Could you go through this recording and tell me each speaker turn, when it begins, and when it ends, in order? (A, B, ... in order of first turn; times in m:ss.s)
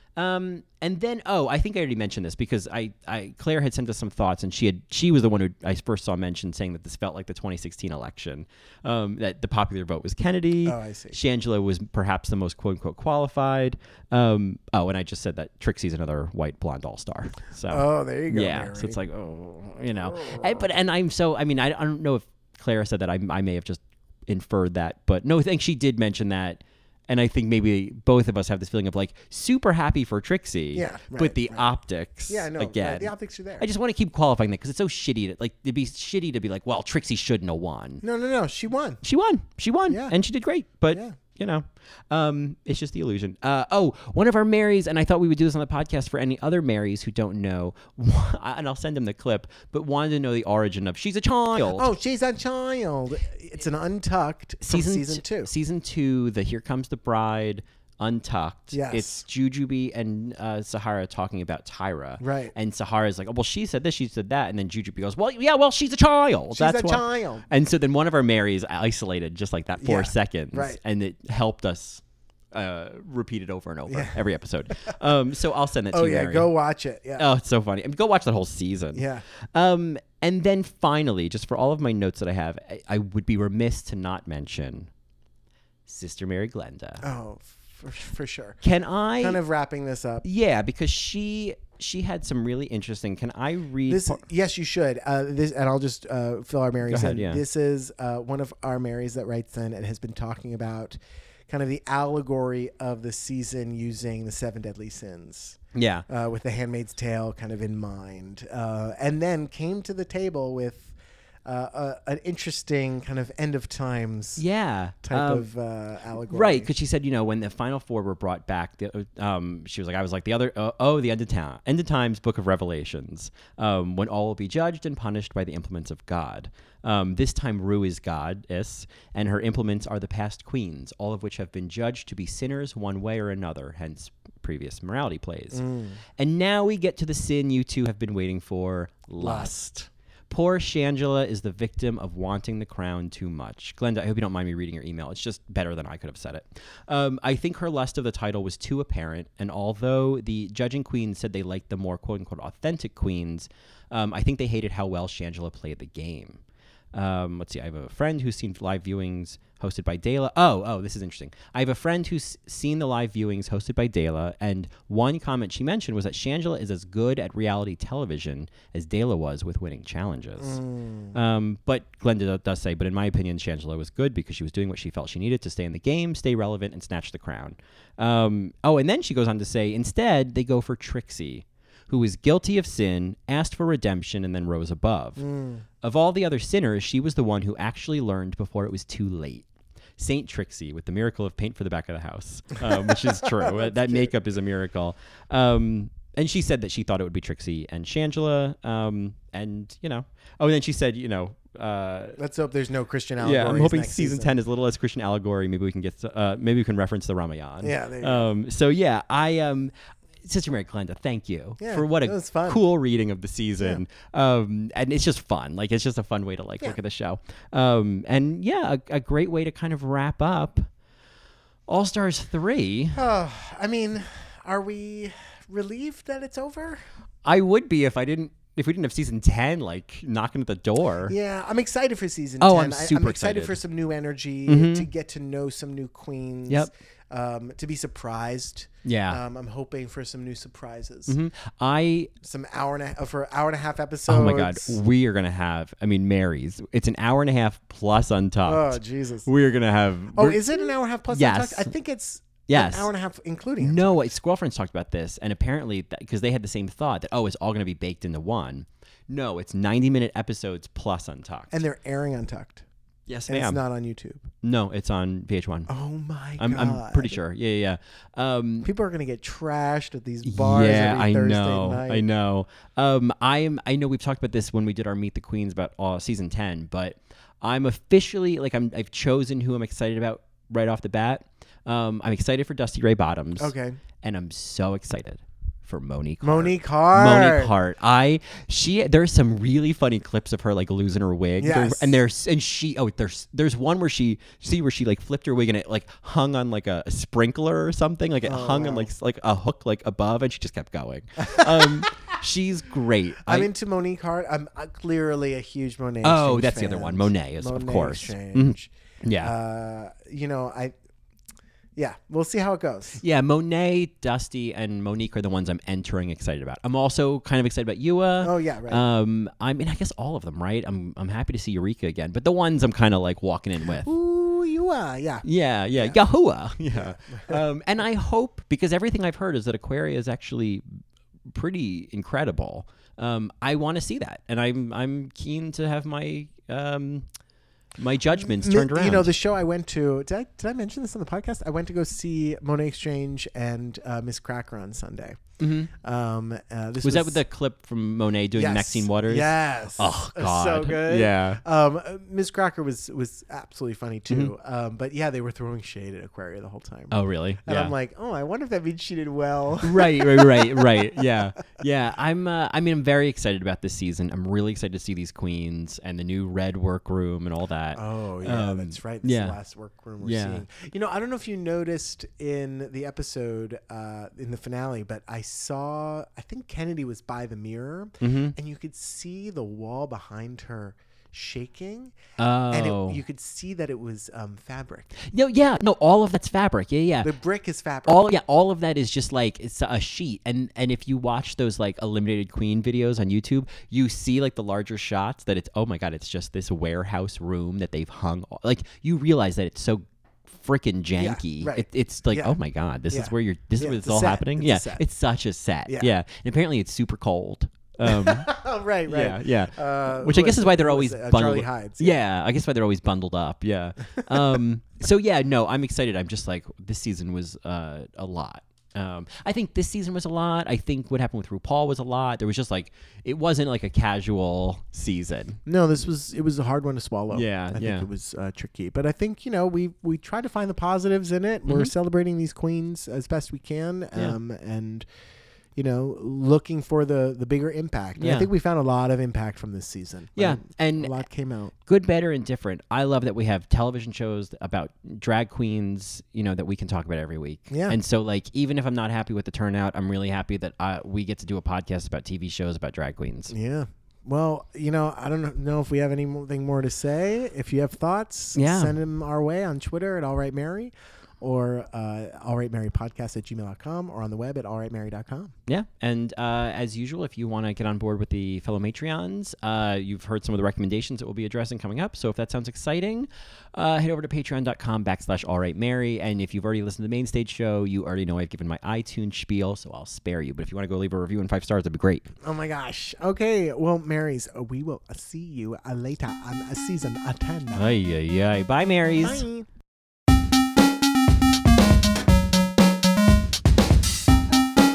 0:00.2-0:38.0 A
0:10.6-0:11.2 B
0:17.7-0:19.0 B
0:20.0-0:20.7 B
0:30.7-0:31.7 B
0:32.3-0:33.6 B
0:38.0-0:39.0 B
0:39.0-0:51.9 A
0:39.9-0:40.1 B
0:51.6-0:55.5 B
0:54.7-1:12.0 A
0:58.7-0:59.2 B
1:02.2-1:02.5 B
1:06.5-1:07.4 B
1:09.8-1:10.8 B
1:12.5-1:16.5 A
1:13.9-1:14.2 B
1:15.9-1:17.3 B
1:17.2-1:24.9 A
1:18.9-1:19.2 B
1:25.9-1:27.0 A
1:27.0-1:28.6 B
1:28.6-1:29.4 A
1:29.2-1:30.2 B
1:30.2-1:34.2 A
1:33.9-1:54.4 B
1:36.9-1:37.4 A
1:45.7-1:46.0 A
1:54.4-1:55.5 A
1:55.0-1:56.7 B
1:56.3-2:19.7 A
2:15.5-2:16.0 B
2:19.2-2:19.8 B
2:20.3-2:36.4 A
2:36.9-2:50.6 A
2:50.4-2:51.2 B
2:51.1-3:05.3 A
3:05.2-3:05.6 B
3:05.8-3:22.2 A
3:12.9-3:14.1 B
3:22.2-3:24.3 B
3:23.2-3:29.7 A
3:27.6-3:28.3 B
3:30.2-3:40.6 A
3:31.6-3:32.6 B
3:33.6-3:33.8 B
3:41.7-3:43.0 A
3:42.9-3:46.8 B
3:47.2-3:51.1 A
3:51.1-4:01.2 B
3:52.4-3:53.6 A
3:54.5-3:54.9 A
3:58.8-3:59.2 A
4:01.1-4:02.1 A
4:02.2-4:04.8 B
4:04.1-4:11.7 A
4:08.4-4:09.3 B
4:10.1-4:14.0 B
4:12.5-4:12.9 A
4:13.6-4:21.5 A
4:21.5-4:22.6 B
4:23.1-4:23.6 A
4:23.3-4:24.3 B
4:24.4-4:25.7 A
4:25.7-4:27.2 B
4:26.4-4:28.7 A
4:28.6-4:32.0 B
4:30.2-5:03.5 A
4:43.4-4:43.8 B
4:46.2-4:47.5 B
4:51.4-4:52.0 B
4:58.2-4:58.9 B
5:01.2-5:01.9 B
5:03.2-5:10.7 B
5:06.0-5:09.3 A
5:11.8-5:13.0 B
5:13.0-5:23.9 A
5:18.2-5:18.8 B
5:23.8-5:26.0 B
5:25.2-5:37.1 A
5:26.7-5:27.4 B
5:37.8-5:39.1 A
5:38.2-5:45.2 B
5:45.4-5:45.7 A
5:45.7-5:47.2 B
5:46.8-5:51.4 A
5:48.3-6:01.1 B
5:56.9-5:57.7 A
5:59.6-6:09.4 A
6:07.7-6:22.0 B
6:10.0-6:10.4 A
6:18.0-6:18.3 A
6:22.2-6:23.0 A
6:22.5-6:25.0 B
6:25.0-6:27.1 A
6:27.0-6:28.1 B
6:27.8-6:48.3 A
6:41.0-6:42.4 B
6:42.9-6:44.8 B
6:47.8-6:52.0 B
6:48.9-7:05.4 A
6:54.0-6:54.4 B
7:05.4-7:14.8 B
7:07.1-7:07.9 A
7:11.4-7:11.7 A
7:15.6-7:21.5 B
7:18.0-7:18.3 A
7:20.2-7:21.0 A
7:21.6-7:33.3 A
7:27.5-7:27.8 B
7:33.3-7:45.3 B
7:38.3-7:38.7 A
7:45.5-8:02.1 A
8:02.2-8:07.7 B
8:07.5-8:09.2 A
8:09.0-8:09.5 B